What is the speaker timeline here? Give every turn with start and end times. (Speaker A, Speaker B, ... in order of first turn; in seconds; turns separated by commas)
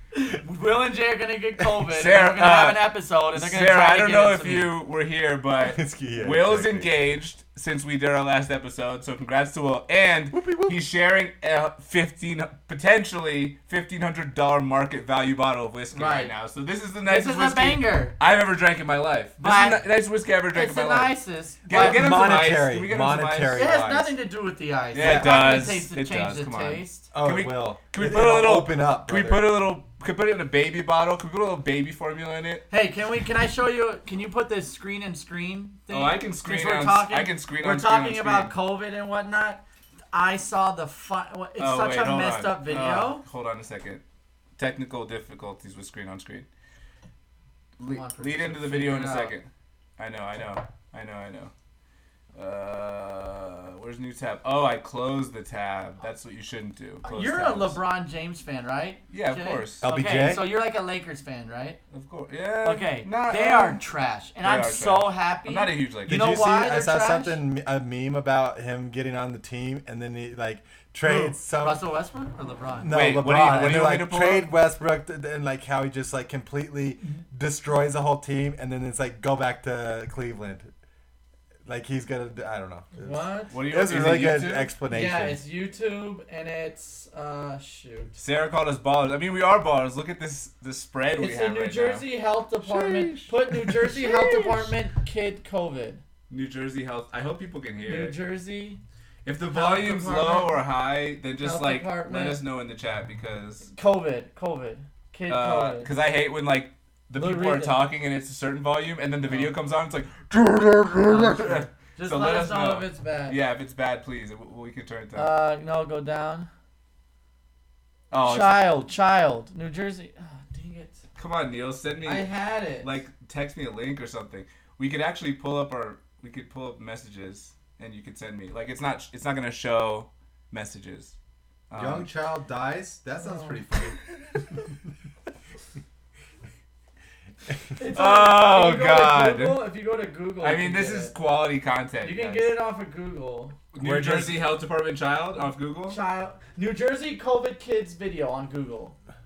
Speaker A: 0.1-4.7, Speaker B: 1.8-23.6, Speaker C: 5.6-6.9, Speaker C: 10.3-10.8, Speaker A: 15.9-16.3, Speaker A: 17.0-18.1, Speaker A: 19.4-19.9, Speaker A: 20.5-22.1, Speaker C: 21.7-24.1, Speaker A: 23.5-27.1, Speaker B: 24.9-32.6, Speaker C: 24.9-25.4, Speaker C: 27.1-29.6, Speaker A: 32.7-43.2, Speaker B: 35.9-38.5, Speaker B: 41.6-44.0, Speaker B: 44.6-46.5, Speaker B: 47.8-51.5, Speaker A: 47.8-49.4, Speaker B: 52.4-57.8, Speaker A: 57.0-61.8, Speaker B: 59.1-59.8, Speaker C: 59.8-60.5, Speaker B: 61.9-63.8, Speaker A: 62.6-67.4, Speaker B: 64.4-66.2, Speaker C: 66.0-71.8, Speaker A: 71.0-73.5, Speaker C: 72.8-80.7, Speaker B: 72.9-74.5, Speaker C: 81.7-85.4, Speaker A: 83.0-83.5, Speaker B: 83.5-84.7, Speaker A: 84.9-88.2, Speaker B: 88.2-92.0, Speaker A: 91.2-96.0, Speaker C: 92.7-93.3, Speaker B: 96.3-98.2, Speaker A: 97.9-98.8, Speaker B: 99.2-103.7, Speaker A: 99.5-100.6, Speaker A: 101.4-102.4, Speaker A: 103.7-105.9, Speaker B: 105.3-115.3, Speaker A: 107.1-107.8, Speaker A: 109.2-109.5, Speaker A: 111.1-113.4, Speaker A: 115.1-116.5, Speaker B: 118.1-118.7, Speaker A: 118.2-121.0, Speaker B: 121.2-131.1, Speaker A: 122.0-123.0, Speaker B: 131.7-132.1, Speaker C: 131.7-134.0, Speaker A: 133.2-133.6, Speaker A: 137.8-141.1, Speaker B: 137.9-139.6, Speaker B: 140.4-142.5, Speaker A: 142.0-143.6, Speaker B: 143.7-146.0, Speaker C: 143.8-144.5, Speaker A: 145.8-148.9